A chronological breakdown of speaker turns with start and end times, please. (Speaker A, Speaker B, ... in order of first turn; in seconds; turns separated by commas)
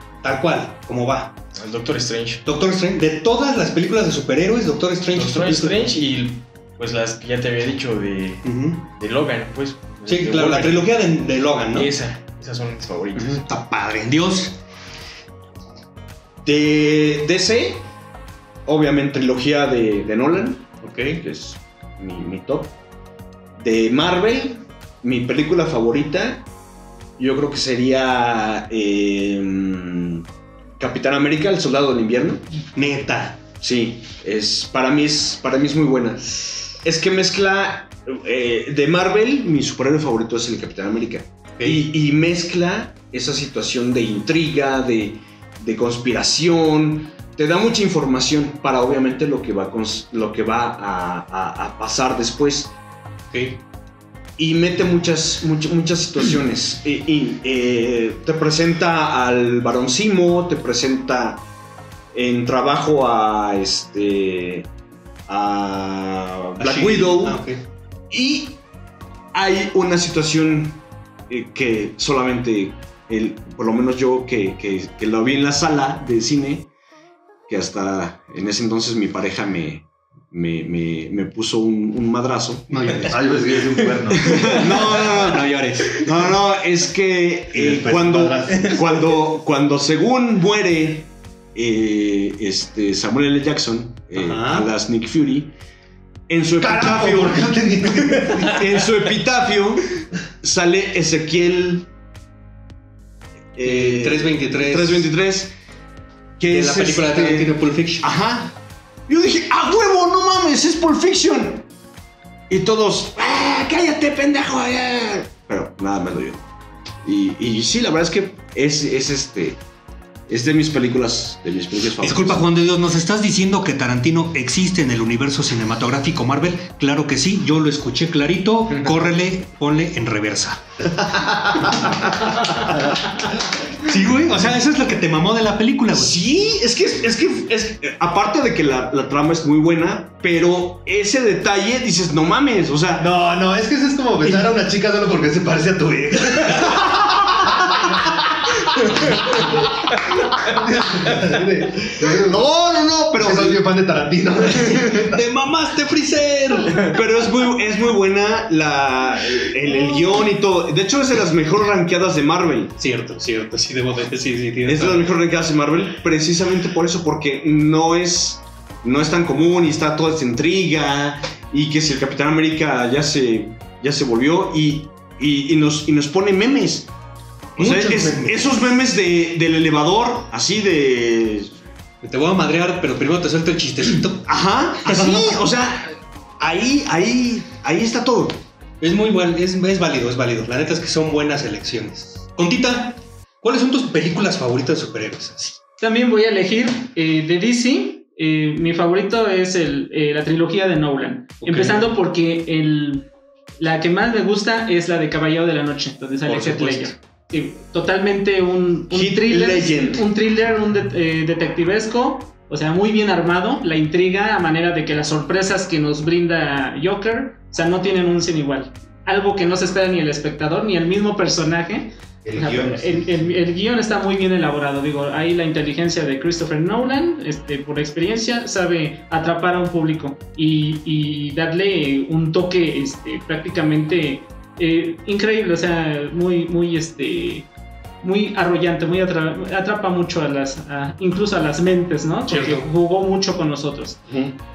Speaker A: 0.2-1.3, Speaker B: 1.5-2.4, Speaker A: 2.5-5.9, Speaker B: 5.1-10.9, Speaker A: 8.4-8.8, Speaker A: 10.1-11.9, Speaker B: 11.7-13.4, Speaker A: 13.4-14.6, Speaker C: 16.4-17.9, Speaker C: 18.6-22.7, Speaker A: 20.8-21.2, Speaker C: 23.6-26.5, Speaker C: 27.2-30.2, Speaker C: 30.8-32.4, Speaker A: 32.7-33.4, Speaker C: 33.6-52.7, Speaker A: 41.6-41.9, Speaker A: 53.3-53.6, Speaker C: 54.4-61.4, Speaker C: 62.1-64.7, Speaker C: 65.3-67.4, Speaker A: 66.6-67.6, Speaker C: 68.1-68.6, Speaker C: 69.3-76.7, Speaker C: 77.5-83.0, Speaker A: 82.7-83.2, Speaker D: 83.0-84.6, Speaker C: 84.2-95.5, Speaker A: 84.3-86.3, Speaker D: 87.5-89.2, Speaker A: 94.1-94.7, Speaker C: 96.3-97.5, Speaker D: 96.6-98.8, Speaker C: 98.4-101.9, Speaker C: 103.5-105.5, Speaker A: 103.6-105.1, Speaker C: 106.4-108.5, Speaker A: 106.5-108.1, Speaker C: 109.1-111.7, Speaker C: 112.5-116.4, Speaker C: 117.0-119.6, Speaker C: 120.3-122.4, Speaker A: 122.0-130.6, Speaker A: 131.7-132.8, Speaker A: 133.8-136.1, Speaker C: 135.9-143.1, Speaker D: 143.0-152.5, Speaker C: 152.0-153.6, Speaker D: 153.1-155.2, Speaker A: 154.9-156.9, Speaker C: 156.8-162.7, Speaker A: 162.8-165.1, Speaker C: 164.7-176.9, Speaker A: 177.6-178.8, Speaker C: 177.6-181.6, Speaker A: 182.0-184.3, Speaker C: 184.2-188.4, Speaker A: 184.8-185.4, Speaker A: 188.8-195.6, Speaker E: 195.8-203.1, Speaker A: 201.4-201.9, Speaker E: 203.6-237.5, Speaker A: 206.2-206.9, Speaker C: 208.9-210.0, Speaker D: 222.2-223.4, Speaker E: 238.0-244.0, Speaker A: 242.3-242.6, Speaker C: 244.1-244.3